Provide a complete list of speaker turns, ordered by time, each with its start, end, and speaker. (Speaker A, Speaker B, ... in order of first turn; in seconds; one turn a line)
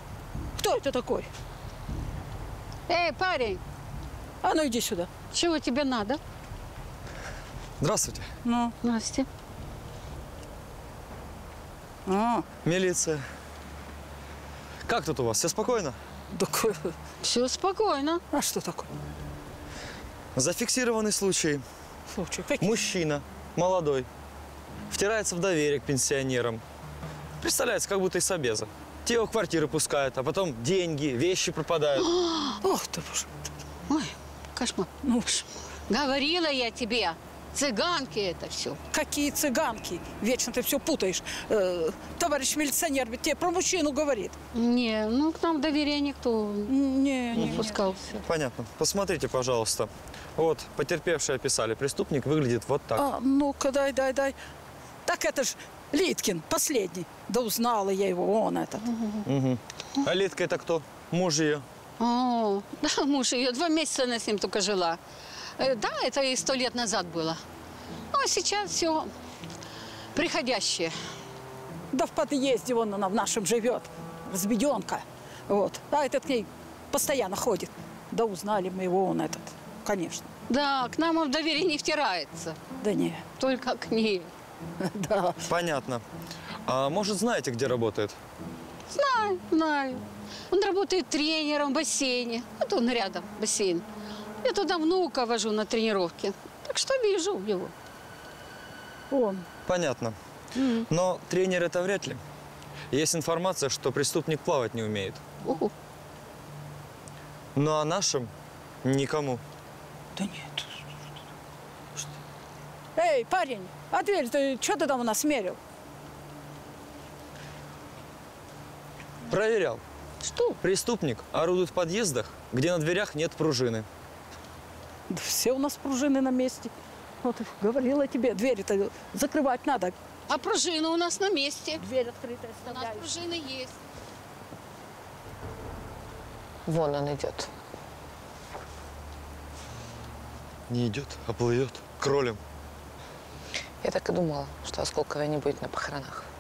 Speaker A: 0.6-1.3
Speaker B: 2.9-3.6
Speaker A: 4.4-5.2
Speaker B: 5.2-6.2
Speaker C: 7.8-8.3
Speaker A: 8.4-8.7
Speaker B: 8.8-9.3
Speaker A: 12.1-12.4
Speaker C: 12.7-13.2
Speaker C: 14.9-16.0
Speaker A: 16.4-16.9
Speaker B: 17.2-18.2
Speaker A: 18.3-18.9
Speaker C: 20.4-21.6
Speaker A: 22.1-22.7
Speaker C: 22.6-24.1
Speaker C: 24.9-26.6
Speaker C: 27.4-32.1
Speaker B: 32.2-32.5
Speaker A: 32.6-33.3
Speaker B: 33.9-38.8
Speaker A: 38.9-44.4
Speaker B: 44.5-46.7
Speaker A: 46.7-47.9
Speaker B: 47.4-48.0
Speaker C: 48.2-53.1
Speaker A: 53.0-54.3
Speaker A: 55.1-58.9
Speaker C: 59.3-61.6
Speaker B: 62.0-65.0
Speaker B: 65.6-67.4
Speaker B: 68.1-69.1
Speaker B: 70.2-70.9
Speaker A: 71.9-80.3
Speaker B: 80.5-82.6
Speaker A: 82.8-83.3
Speaker B: 83.3-84.3
Speaker A: 84.8-85.4
Speaker C: 85.5-86.0
Speaker C: 86.7-88.2
Speaker B: 88.9-93.8
Speaker B: 94.4-97.7
Speaker A: 99.1-99.5
Speaker C: 99.7-100.2
Speaker C: 100.9-102.2
Speaker C: 102.9-105.2
Speaker B: 105.5-105.7
Speaker C: 107.6-108.3
Speaker C: 108.8-109.4
Speaker A: 110.2-110.6
Speaker A: 113.0-115.6
Speaker C: 119.3-119.8
Speaker C: 120.6-123.9
Speaker A: 125.1-126.7
Speaker A: 127.2-129.9
Speaker B: 130.3-131.8
Speaker A: 131.8-133.2
Speaker B: 132.7-133.8
Speaker D: 136.7-137.5
Speaker C: 140.7-142.4
Speaker D: 143.8-146.3